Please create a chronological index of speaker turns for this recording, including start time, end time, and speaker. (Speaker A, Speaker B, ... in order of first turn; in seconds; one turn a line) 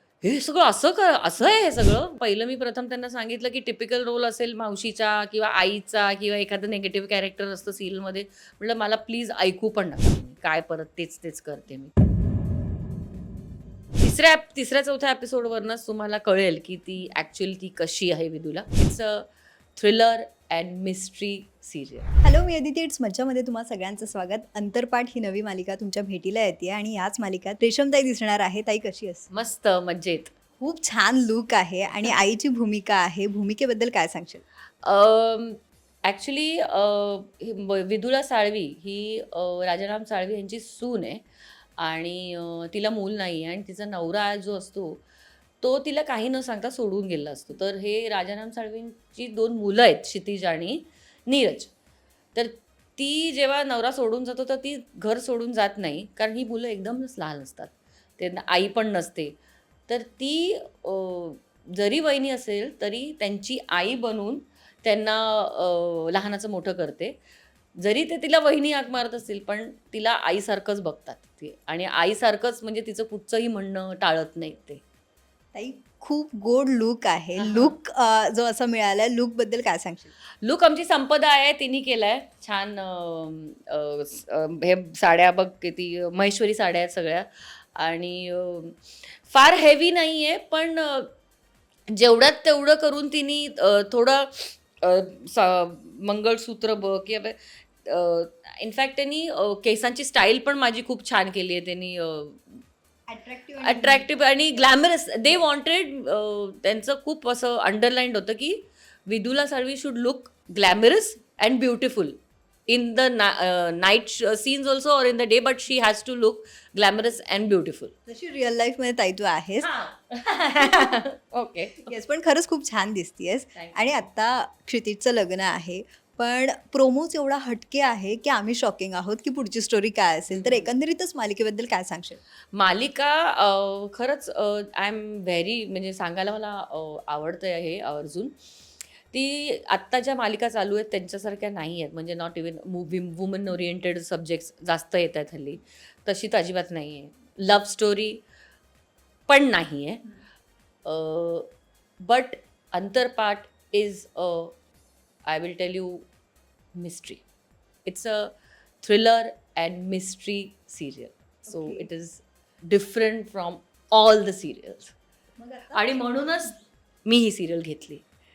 Speaker A: 0.2-11.9
Speaker A: 14.0-22.1
Speaker B: 22.2-29.3
Speaker A: 29.3-30.3
Speaker B: 30.6-34.4
Speaker A: 34.8-41.2
Speaker A: 41.8-45.0
Speaker A: 45.6-51.7
Speaker A: 52.4-59.4
Speaker A: 59.9-67.2
Speaker A: 67.8-74.8
Speaker B: 75.5-80.1
Speaker A: 77.4-77.7
Speaker A: 80.4-91.1
Speaker A: 91.9-102.6
Speaker B: 103.1-104.8
Speaker A: 103.6-112.2
Speaker A: 112.7-117.9
Speaker B: 118.1-119.7
Speaker A: 119.6-121.9
Speaker B: 121.9-132.2
Speaker A: 123.5-123.8
Speaker A: 130.3-130.7
Speaker A: 132.5-138.3
Speaker A: 139.1-148.2
Speaker A: 149.3-150.1
Speaker A: 150.8-151.5
Speaker A: 152.0-154.6
Speaker A: 155.3-156.1
Speaker A: 156.8-157.2
Speaker A: 157.8-164.9
Speaker B: 161.5-161.9
Speaker B: 165.4-166.0
Speaker A: 165.7-168.0